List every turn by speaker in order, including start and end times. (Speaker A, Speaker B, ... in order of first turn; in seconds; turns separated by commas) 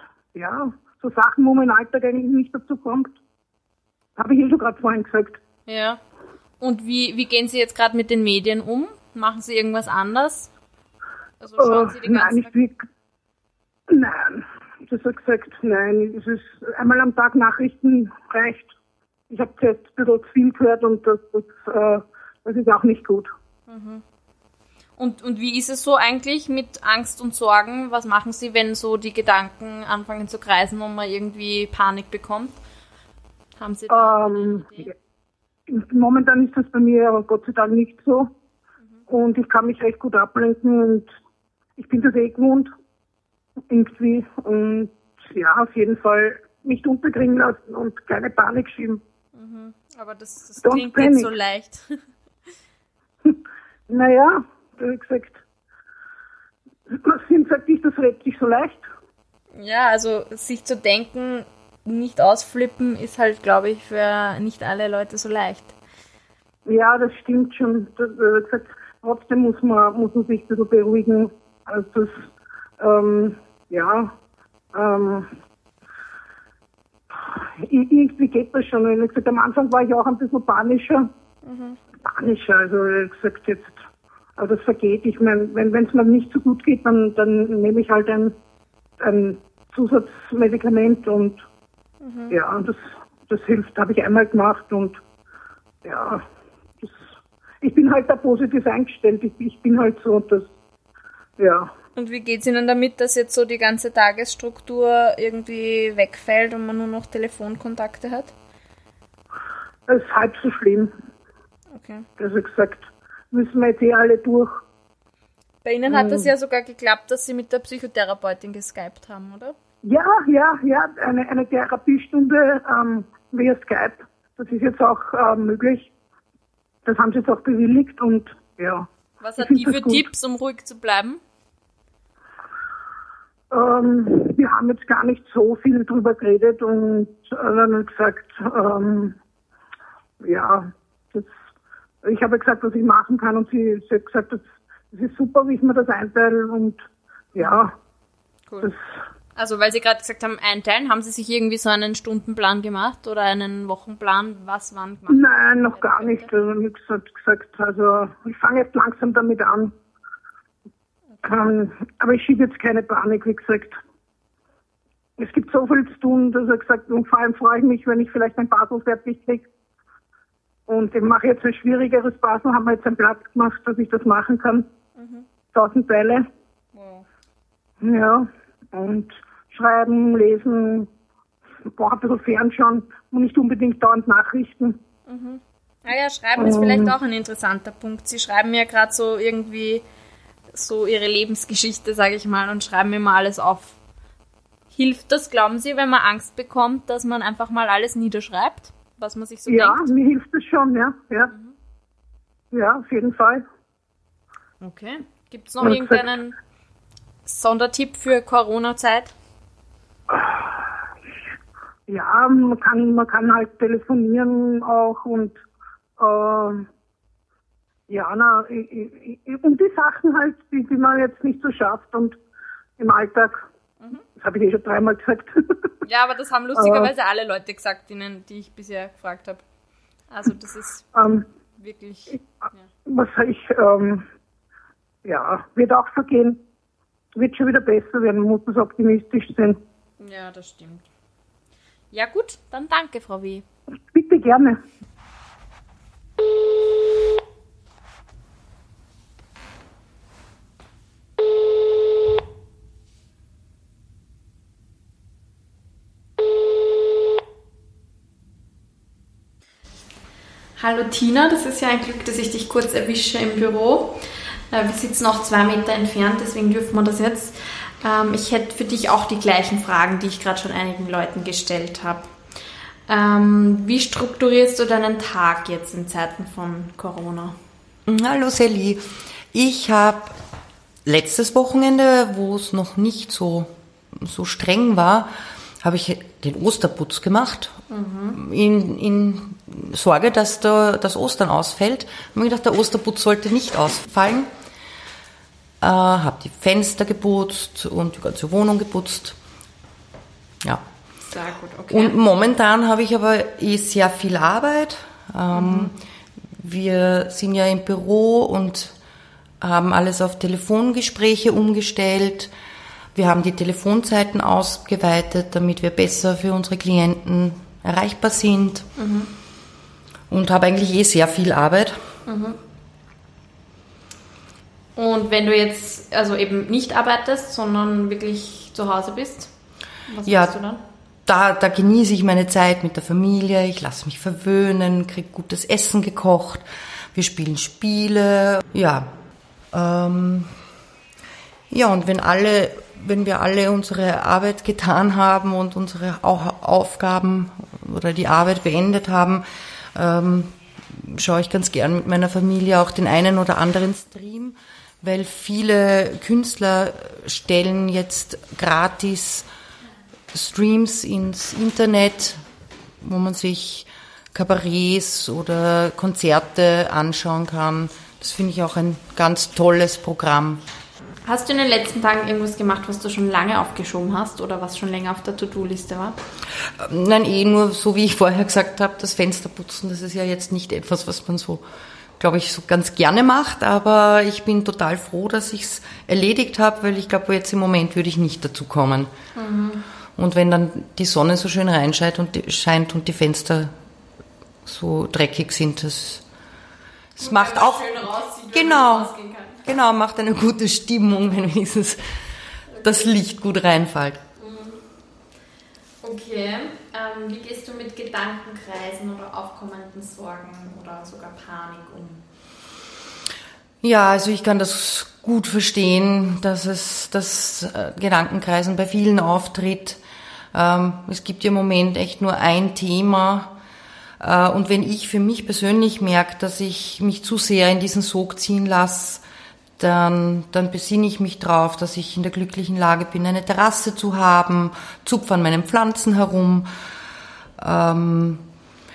Speaker A: 0.3-3.1, Speaker A: 4.2-5.4, Speaker B: 5.7-6.0, Speaker B: 6.6-10.5, Speaker B: 11.4-12.5, Speaker A: 11.6-12.8, Speaker A: 13.9-18.7, Speaker A: 19.3-23.3, Speaker B: 23.7-24.0, Speaker B: 25.0-32.6, Speaker B: 33.6-34.9, Speaker A: 33.9-34.9, Speaker A: 35.7-38.3, Speaker A: 39.1-41.1, Speaker A: 41.8-42.7, Speaker A: 43.7-49.0, Speaker B: 49.3-52.0, Speaker A: 50.6-51.3, Speaker A: 53.9-55.4, Speaker A: 56.9-58.9, Speaker B: 59.5-65.7, Speaker A: 66.7-72.3, Speaker A: 72.8-74.1, Speaker A: 74.7-75.3, Speaker A: 77.6-81.1, Speaker B: 81.4-81.8, Speaker A: 82.0-83.8, Speaker A: 84.4-88.3, Speaker A: 89.0-91.4, Speaker B: 92.0-92.4, Speaker A: 92.3-95.0, Speaker A: 95.8-96.2, Speaker A: 97.6-100.5, Speaker A: 101.4-101.7, Speaker B: 102.0-108.3, Speaker A: 109.9-110.9, Speaker B: 111.7-112.0, Speaker A: 112.2-114.6, Speaker B: 115.6-119.5, Speaker A: 115.9-116.3, Speaker A: 119.8-125.9, Speaker A: 126.8-128.9, Speaker B: 129.2-131.2, Speaker A: 129.4-130.0, Speaker A: 133.5-139.2, Speaker A: 140.2-141.3, Speaker A: 142.0-146.8, Speaker A: 147.3-147.7, Speaker B: 147.4-147.6, Speaker B: 148.5-148.7, Speaker B: 149.3-156.3, Speaker A: 155.1-159.7, Speaker A: 161.2-163.8, Speaker A: 165.2-169.4, Speaker A: 170.7-174.7, Speaker B: 174.9-175.2, Speaker A: 175.5-176.2, Speaker B: 176.7-177.1, Speaker A: 177.8-180.9, Speaker A: 181.8-184.8, Speaker B: 185.1-189.8, Speaker A: 186.4-187.0, Speaker B: 190.5-193.8, Speaker B: 194.7-199.9, Speaker A: 199.5-201.3, Speaker B: 201.3-201.5, Speaker A: 202.5-203.4, Speaker B: 204.6-206.3, Speaker A: 205.6-206.1, Speaker B: 207.2-209.1, Speaker A: 210.1-210.5, Speaker A: 211.9-215.4, Speaker A: 216.0-216.7, Speaker A: 217.9-222.2, Speaker A: 222.8-223.4, Speaker A: 224.2-225.4, Speaker B: 225.8-229.4, Speaker A: 226.6-226.9, Speaker B: 230.1-230.8, Speaker A: 230.9-231.2, Speaker B: 231.6-232.6, Speaker A: 232.9-234.1, Speaker A: 235.0-236.4, Speaker A: 237.1-239.6, Speaker B: 240.0-240.8, Speaker B: 241.9-243.4, Speaker A: 243.9-244.6, Speaker B: 260.6-272.1, Speaker B: 272.9-277.4, Speaker C: 277.9-280.1, Speaker C: 280.8-285.1, Speaker C: 285.6-287.6, Speaker B: 287.7-288.2, Speaker C: 288.1-294.3, Speaker C: 295.6-299.2, Speaker B: 301.1-301.9, Speaker C: 301.7-305.7, Speaker B: 305.3-305.7, Speaker C: 306.4-308.7, Speaker C: 309.4-312.3, Speaker C: 312.9-318.7, Speaker B: 318.8-319.1, Speaker C: 320.1-321.8, Speaker B: 322.1-322.4, Speaker B: 324.8-329.3, Speaker B: 329.9-330.6, Speaker C: 330.0-330.4, Speaker C: 331.1-338.9, Speaker C: 339.5-340.3, Speaker C: 341.5-349.2, Speaker C: 349.7-359.3, Speaker C: 360.1-362.2, Speaker C: 362.8-370.4, Speaker B: 371.0-376.0, Speaker C: 376.6-381.4, Speaker C: 382.0-388.9, Speaker B: 389.1-389.6, Speaker C: 389.9-393.5, Speaker C: 394.4-396.0, Speaker C: 396.9-397.8, Speaker B: 397.0-399.4, Speaker C: 398.3-401.8, Speaker B: 402.5-402.8, Speaker C: 402.6-404.0, Speaker B: 404.2-404.6, Speaker B: 405.8-412.0, Speaker C: 413.6-419.8, Speaker C: 420.3-423.3, Speaker C: 424.0-429.0, Speaker C: 429.6-436.5, Speaker C: 437.4-438.2